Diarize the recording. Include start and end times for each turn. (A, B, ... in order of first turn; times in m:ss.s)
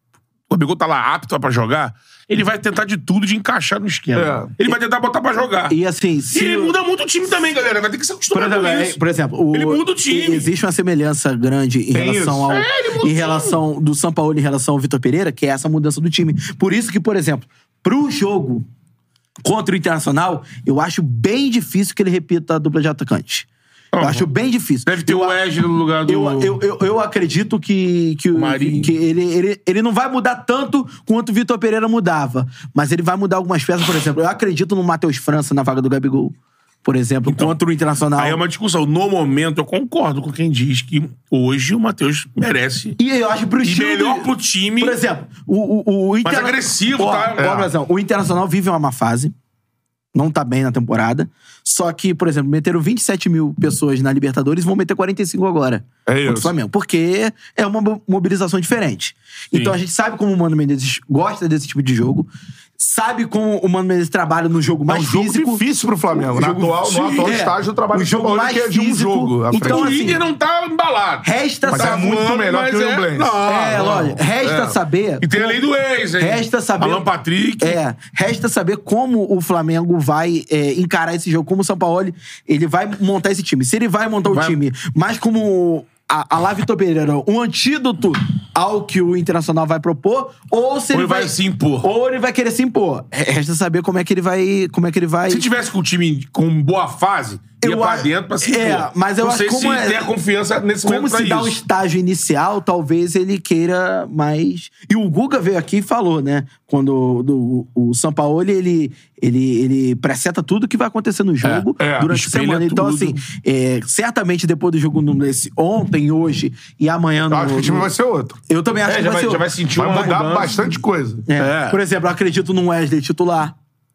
0:00.5-0:05.8 A
0:04.2-0:04.5 B
0:05.7-0:06.7 C
0:06.3-0:09.0 A
0:08.3-0:18.7 C
0:09.5-0:10.5 A
0:11.9-0:12.5 B
0:12.5-0:13.6 A
0:19.4-0:23.5 C
0:23.9-0:24.3 A
0:24.0-0:25.4 C
0:24.9-0:26.6 A
0:26.1-0:38.4 C
0:28.3-0:28.9 A
0:37.3-0:37.6 A
0:38.2-0:43.0 A
0:43.0-0:49.3 C
0:43.6-0:45.0 A
0:46.2-0:47.7 A
0:47.4-0:47.7 B
0:50.1-1:05.6 C
0:56.1-0:56.5 B
1:04.9-1:10.0 B
1:06.2-1:10.2 C
1:06.8-1:07.3 A
1:09.6-1:14.2 A
1:11.2-1:12.1 C
1:11.7-1:13.4 B
1:13.4-1:15.6 C
1:14.4-1:14.8 B
1:15.2-1:17.8 A
1:16.2-1:17.1 C
1:17.6-1:35.5 C
1:24.3-1:24.6 A
1:30.9-1:31.9 A
1:35.3-1:41.6 A
1:37.6-1:40.1 C
1:40.8-1:57.9 C
1:51.4-1:53.2 A
1:51.8-1:52.1 B
1:57.3-1:58.4 B
1:58.5-2:00.3 C
1:58.8-2:00.6 A
1:59.8-2:01.2 B
2:01.3-2:03.6 C
2:01.4-2:01.8 A